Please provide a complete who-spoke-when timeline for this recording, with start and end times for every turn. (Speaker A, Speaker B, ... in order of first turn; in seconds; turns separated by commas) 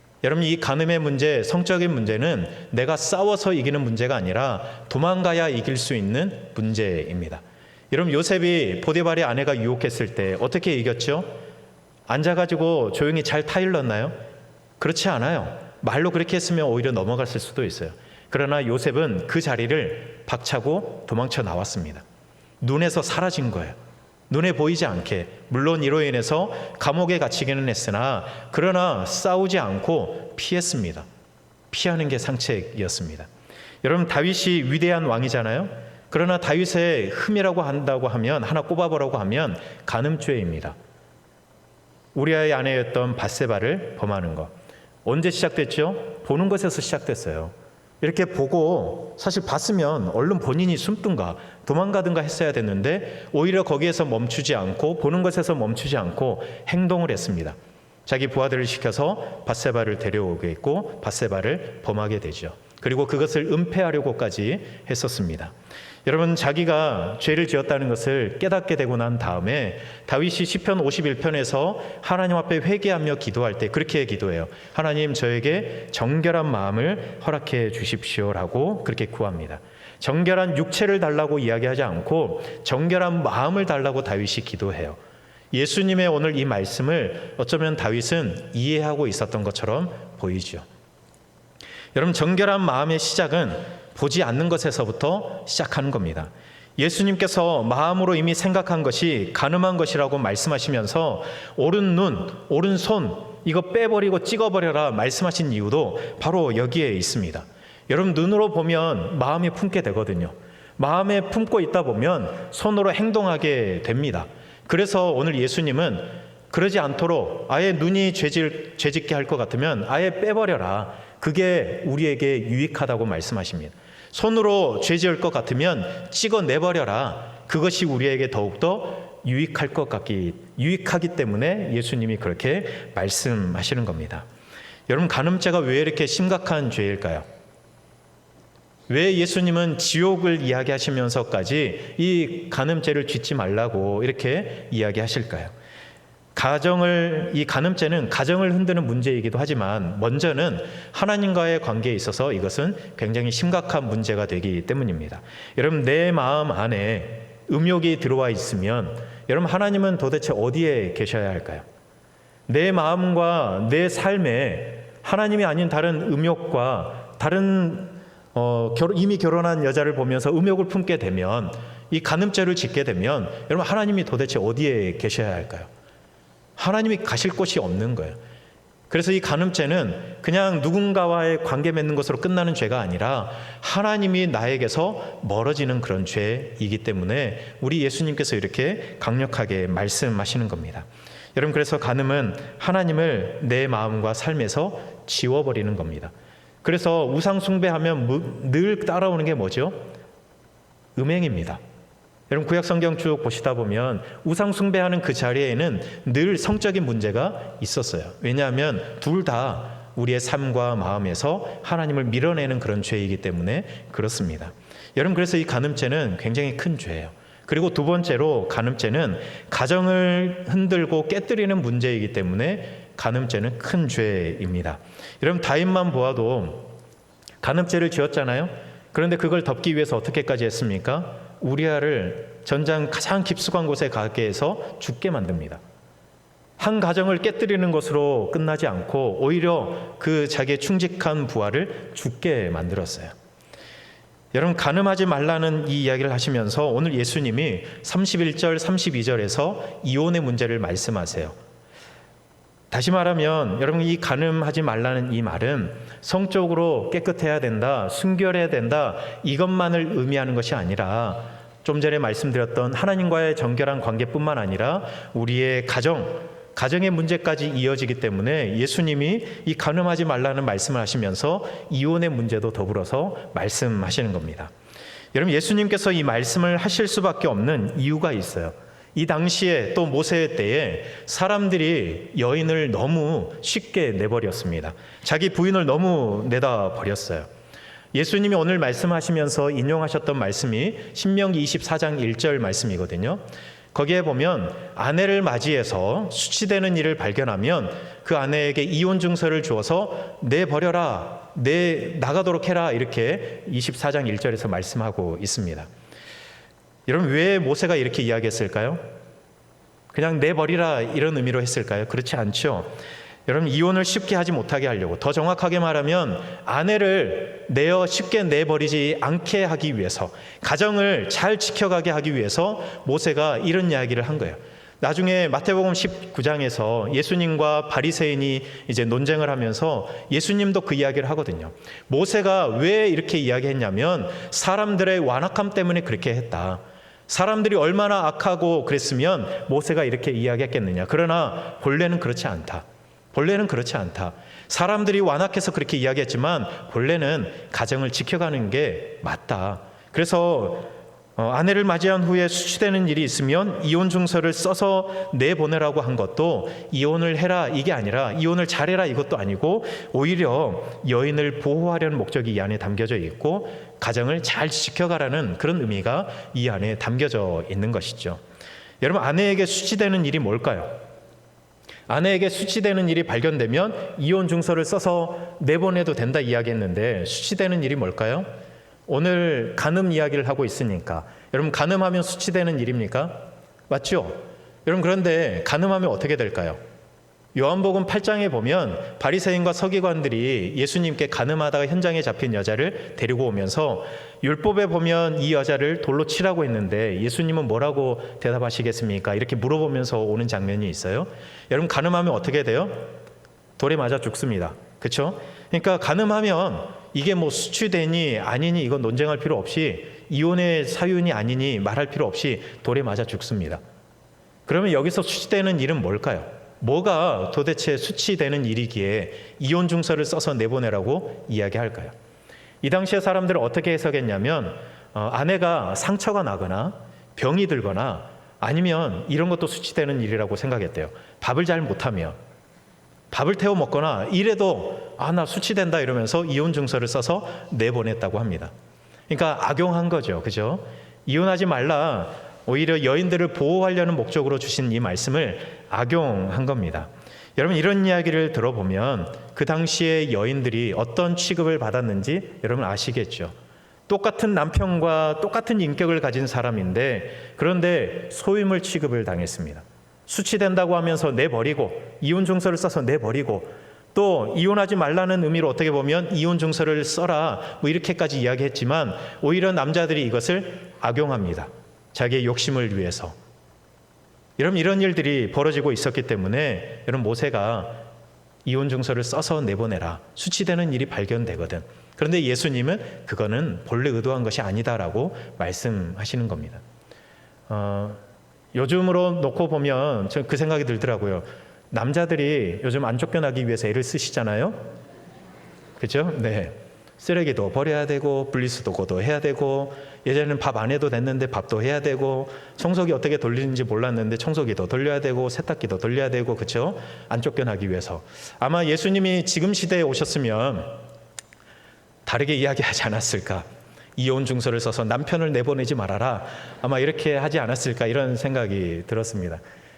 Speaker A: 0.2-11.3, Speaker A: 12.1-14.2, Speaker A: 14.8-22.0, Speaker A: 22.6-23.8, Speaker A: 24.3-31.1, Speaker A: 31.7-33.3, Speaker A: 33.8-40.8, Speaker A: 42.1-44.5, Speaker A: 45.0-65.5, Speaker A: 66.0-85.0, Speaker A: 85.5-90.7, Speaker A: 91.9-134.2, Speaker A: 134.9-137.2, Speaker A: 138.9-145.5, Speaker A: 146.4-161.7, Speaker A: 162.5-175.7, Speaker A: 176.6-178.2, Speaker A: 178.9-196.1, Speaker A: 196.6-199.8, Speaker A: 200.9-201.6, Speaker A: 202.3-226.7, Speaker A: 227.4-235.6, Speaker A: 236.6-243.1, Speaker A: 244.3-251.4, Speaker A: 252.7-274.5, Speaker A: 275.1-287.3, Speaker A: 287.9-293.2, Speaker A: 293.7-305.7, Speaker A: 306.9-308.8, Speaker A: 309.9-312.7, Speaker A: 313.3-368.2, Speaker A: 368.8-370.8, Speaker A: 371.9-378.3, Speaker A: 378.9-386.6, Speaker A: 387.3-402.9, Speaker A: 403.6-413.6, Speaker A: 414.5-421.9, Speaker A: 422.6-432.2, Speaker A: 433.1-438.5, Speaker A: 439.1-453.3, Speaker A: 453.9-473.1, Speaker A: 474.4-477.8, Speaker A: 478.4-486.6, Speaker A: 487.5-488.0, Speaker A: 488.5-494.6, Speaker A: 495.8-510.8, Speaker A: 512.1-513.5, Speaker A: 514.0-519.4